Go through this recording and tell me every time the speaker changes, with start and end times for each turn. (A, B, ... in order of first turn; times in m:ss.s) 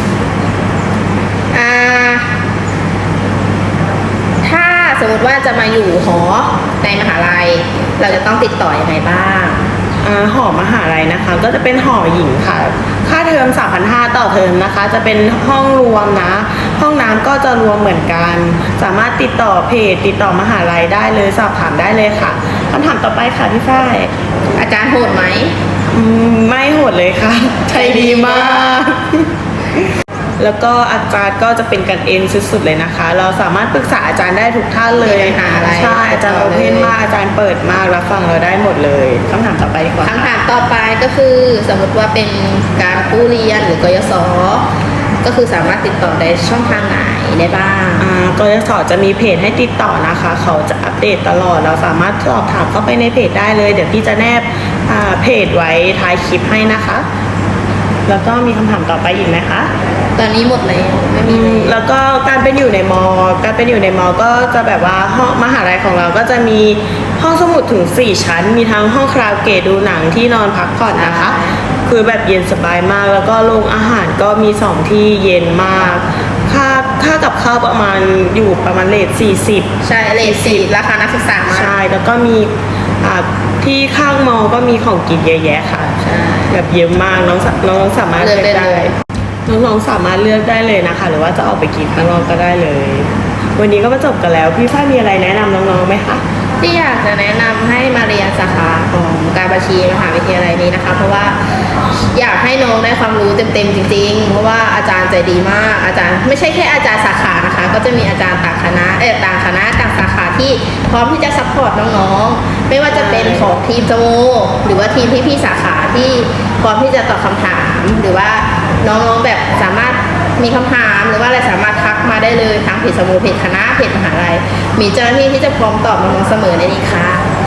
0:01.5-0:02.3 A
0:04.4-0:09.7 A
0:10.0-0:24.1 B
0:24.6-0:25.5 A
0:25.9-0:29.3 B
0:27.7-0:28.7 A
0:30.4-0:40.3 B
0:35.0-0:36.9 A
0:40.0-0:44.7 A
0:45.2-0:48.0 A
0:48.0-0:57.0 B
0:58.1-0:59.7 B
1:00.2-1:01.8 A
1:01.2-1:20.7 B
1:10.9-1:11.6 A
1:19.8-1:21.8 A
1:21.5-1:22.5 B
1:23.0-1:26.0 B
1:26.0-1:26.6 A
1:26.5-1:28.9 B
1:28.2-1:28.9 A
1:29.5-1:36.2 B
1:36.6-2:07.2 A
1:52.9-1:53.5 B